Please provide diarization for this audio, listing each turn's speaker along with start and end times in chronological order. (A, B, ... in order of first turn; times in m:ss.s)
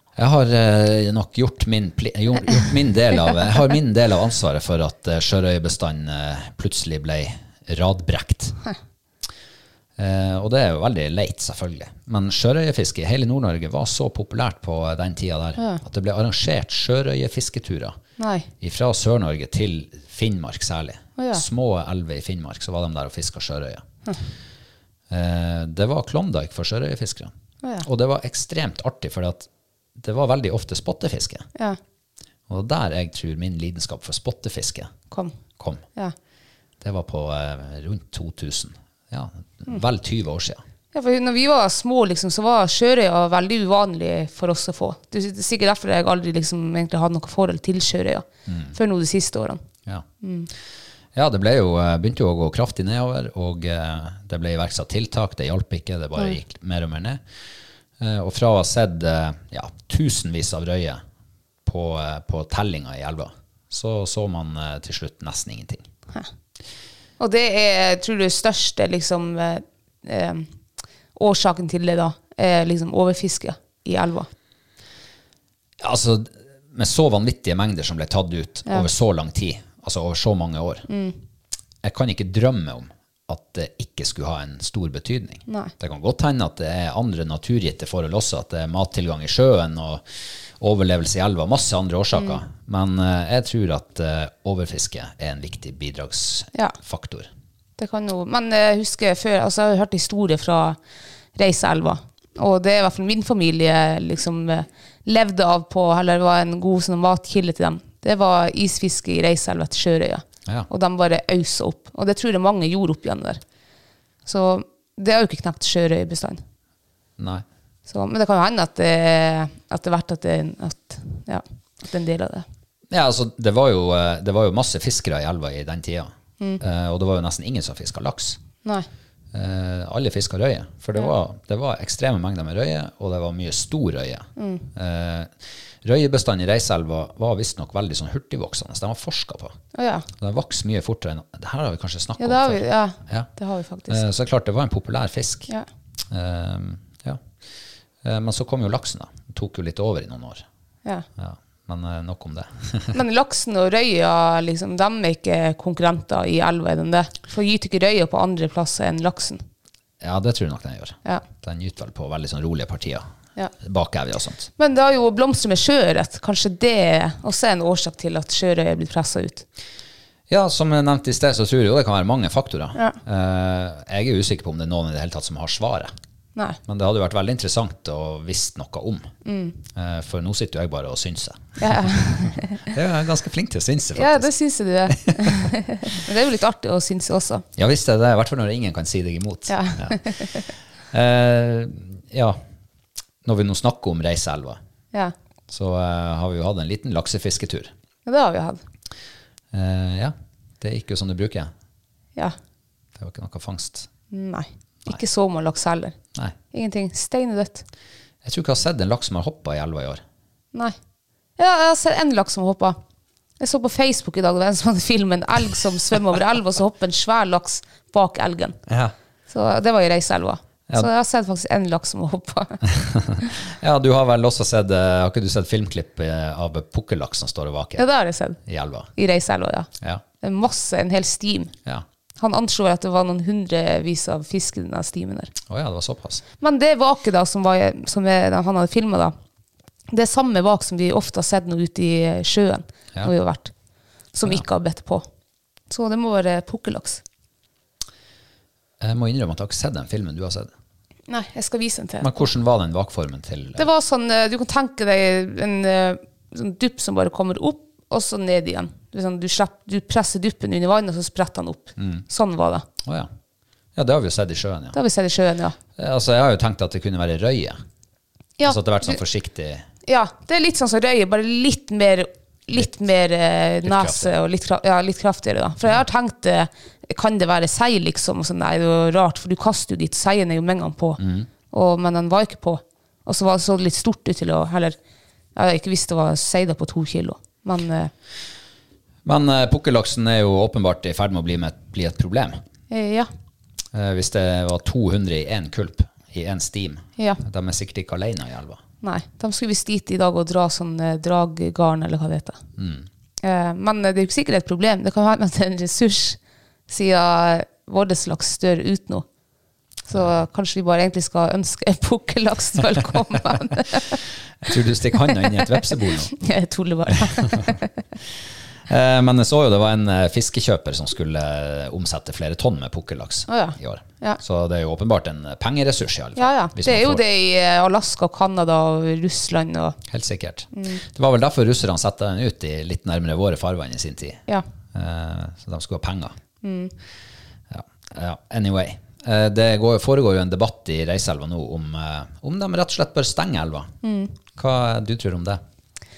0:00.2-0:08.6 A
0:10.0-0:18.0 A
0:18.2-0:18.5 B
0:18.6-0:23.8 A
0:21.2-0:21.4 B
0:25.1-0:27.3 A
0:27.8-0:31.5 A
0:32.5-0:34.9 A
0:35.6-0:35.8 A
0:36.8-0:40.6 A
0:40.9-0:49.6 B
0:48.5-0:48.7 A
0:50.2-0:50.5 B
0:51.1-0:57.2 A
0:58.0-1:01.0 A
1:01.7-1:05.9 A
1:07.2-1:10.5 B
1:11.1-1:14.3 B
1:15.8-1:20.9 A
1:20.9-1:21.2 B
1:21.8-1:30.1 A
1:30.6-1:37.3 A
1:37.8-1:40.8 B
1:41.4-1:53.4 B
1:54.2-1:56.4 B
1:57.2-1:57.4 A
1:57.9-2:02.5 B
2:02.9-2:08.4 A
2:09.3-2:19.6 A
2:14.4-2:14.7 B
2:19.7-2:20.1 B
2:20.2-2:23.3 A
2:22.2-2:24.0 B
2:23.9-2:25.5 A
2:26.1-2:27.2 A
2:28.0-2:30.4 A
2:31.2-2:33.0 A
2:32.9-2:39.4 B
2:40.0-2:43.0 A
2:43.6-2:44.5 A
2:44.6-2:49.4 B
2:50.3-2:55.9 A
2:56.7-2:59.1 A
2:59.2-2:59.6 B
2:59.7-3:04.3 A
3:01.6-3:02.7 B
3:04.0-3:07.4 B
3:04.9-3:05.5 A
3:07.6-3:10.0 A
3:09.5-3:10.5 B
3:10.9-3:12.4 A
3:13.2-3:14.6 A
3:15.5-3:17.7 A
3:18.1-3:18.6 B
3:19.5-3:21.5 A
3:23.0-3:23.9 A
3:24.1-3:26.0 B
3:26.5-3:27.6 B
3:28.2-3:30.0 A
3:31.4-3:32.8 B
3:33.4-3:38.6 B
3:38.7-3:38.9 A
3:39.3-3:42.6 B
3:42.7-3:47.9 A
3:47.8-3:48.4 B
3:48.4-3:48.9 A
3:49.0-3:49.7 B
3:50.2-3:51.5 B
3:52.2-3:55.3 B
3:55.5-3:56.2 A
3:56.4-3:59.1 B
3:59.9-4:03.5 B
4:04.1-4:05.0 B
4:05.7-4:07.0 B
4:08.8-4:10.5 A
4:11.1-4:12.2 B
4:12.0-4:13.7 A
4:13.6-4:22.7 B
4:21.8-4:22.0 A
4:22.8-4:23.1 A
4:23.8-4:24.8 A
4:24.7-4:25.6 B
4:25.8-4:27.6 A
4:28.4-4:29.0 B
4:28.4-4:29.7 A
4:29.9-4:41.0 B
4:33.6-4:34.1 A
4:41.0-4:41.3 A
4:41.5-4:44.8 B
4:45.4-4:47.9 B
4:49.0-4:52.4 A
4:52.7-4:53.1 B
4:53.7-4:58.6 A
4:58.8-5:02.4 B
5:02.6-5:02.9 A
5:03.2-5:09.1 B
5:09.9-5:14.0 B
5:14.4-5:16.1 A
5:15.1-5:17.7 B
5:18.7-5:27.0 A
5:23.3-5:24.2 B
5:26.2-5:29.8 B
5:29.9-5:36.1 A
5:30.5-5:30.8 B
5:36.4-5:36.7 B
5:37.5-5:43.7 A
5:43.8-5:44.2 B
5:44.4-5:45.4 A